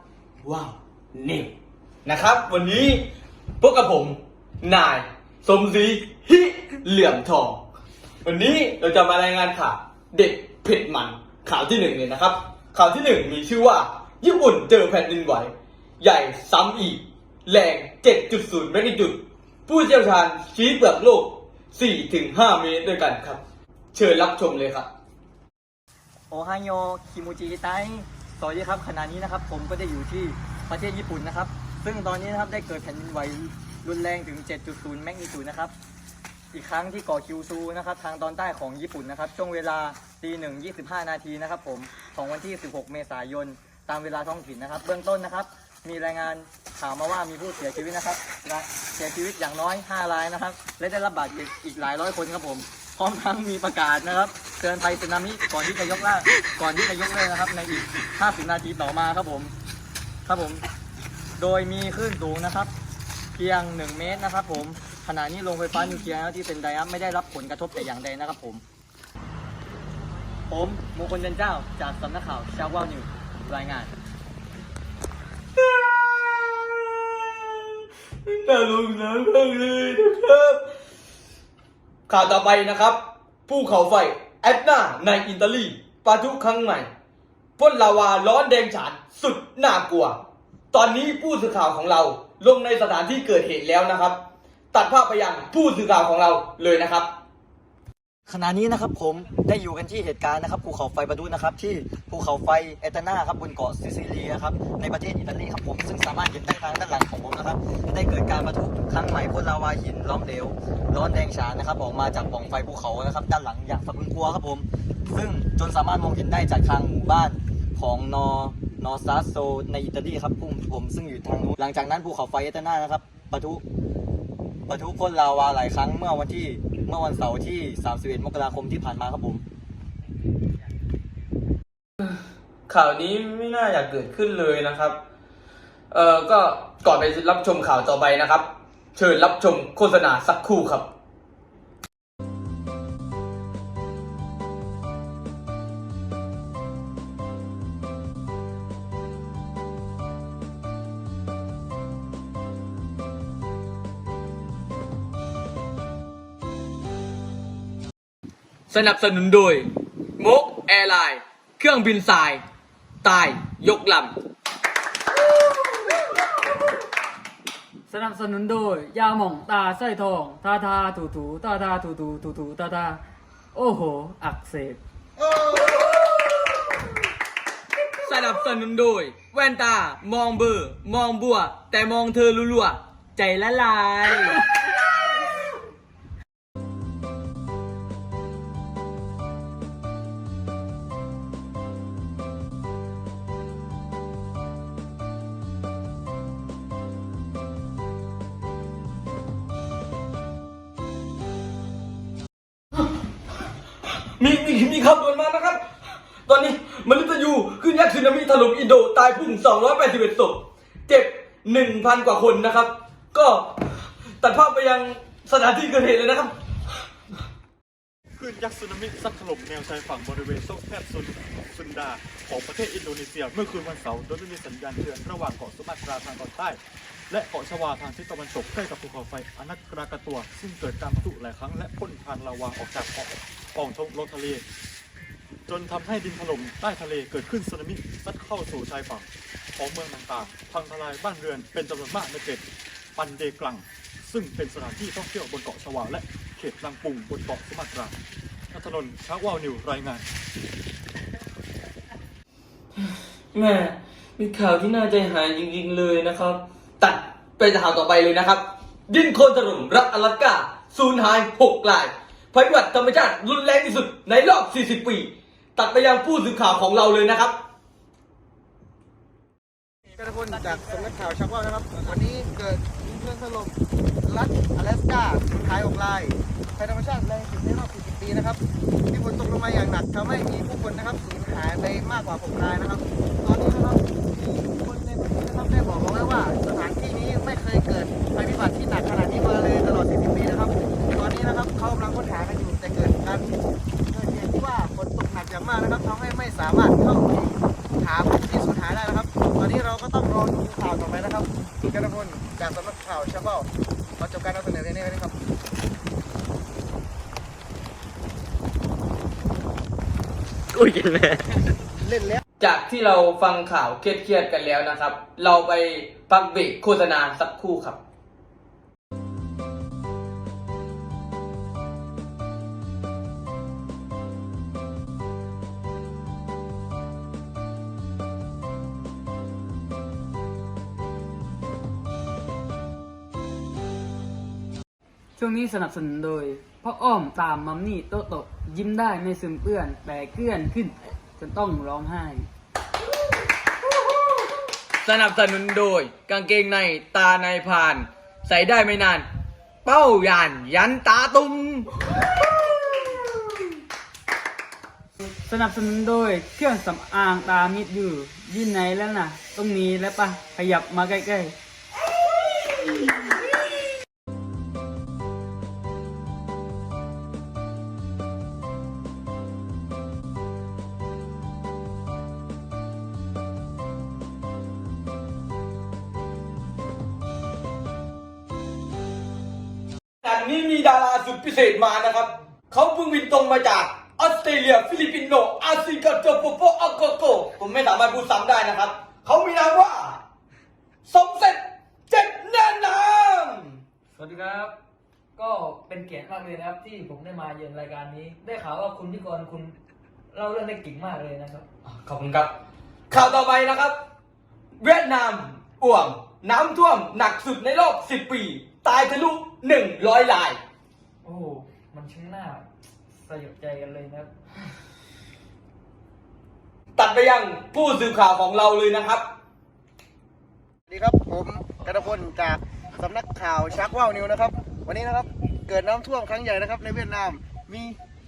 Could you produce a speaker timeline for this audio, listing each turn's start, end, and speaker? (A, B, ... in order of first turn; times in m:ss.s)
0:00.4-0:01.5 A
0:02.0-0:03.0 A
0:03.6-0:07.6 A
0:08.2-0:23.4 A
0:23.9-0:24.9 A
0:26.3-0:35.7 B
0:36.5-0:59.5 B
1:00.2-1:00.6 B
1:01.4-1:02.7 B
1:03.3-1:08.6 B
1:10.5-1:13.9 B
1:15.6-1:20.6 A
1:22.1-1:26.9 A
1:27.6-1:30.2 A
1:30.7-1:34.2 A
1:34.7-1:37.1 A
1:38.3-2:03.6 B
2:04.7-2:09.4 B
2:12.7-2:15.0 A
2:15.9-2:20.9 A
2:38.7-2:42.4 A
2:43.0-2:44.1 A
2:47.9-2:53.0 C
2:53.5-2:54.8 C
2:55.2-2:55.9 D
2:58.0-3:04.4 A
3:24.2-3:25.6 A
3:26.2-3:33.7 A
3:34.2-3:36.3 A
3:38.2-3:54.4 E
3:55.5-4:02.4 E
4:03.0-4:08.0 E
4:08.5-4:10.0 E
4:13.3-4:27.4 A
4:29.9-4:53.3 D
4:53.9-5:05.1 D
5:10.5-5:11.2 B
5:11.8-5:12.2 D
5:12.4-5:17.8 A
5:35.2-5:42.3 C
5:44.8-5:49.1 A
5:49.6-5:51.7 A
5:55.1-6:01.3 C
6:20.0-6:30.0 A
6:30.8-6:33.6 A
6:35.2-6:39.5 C
6:40.1-6:41.4 C
6:41.6-6:42.3 A
6:42.9-6:43.8 A
6:44.6-6:50.4 A
6:51.0-6:52.4 C
6:53.1-6:54.1 C
6:56.8-6:59.1 A
7:00.7-7:07.8 D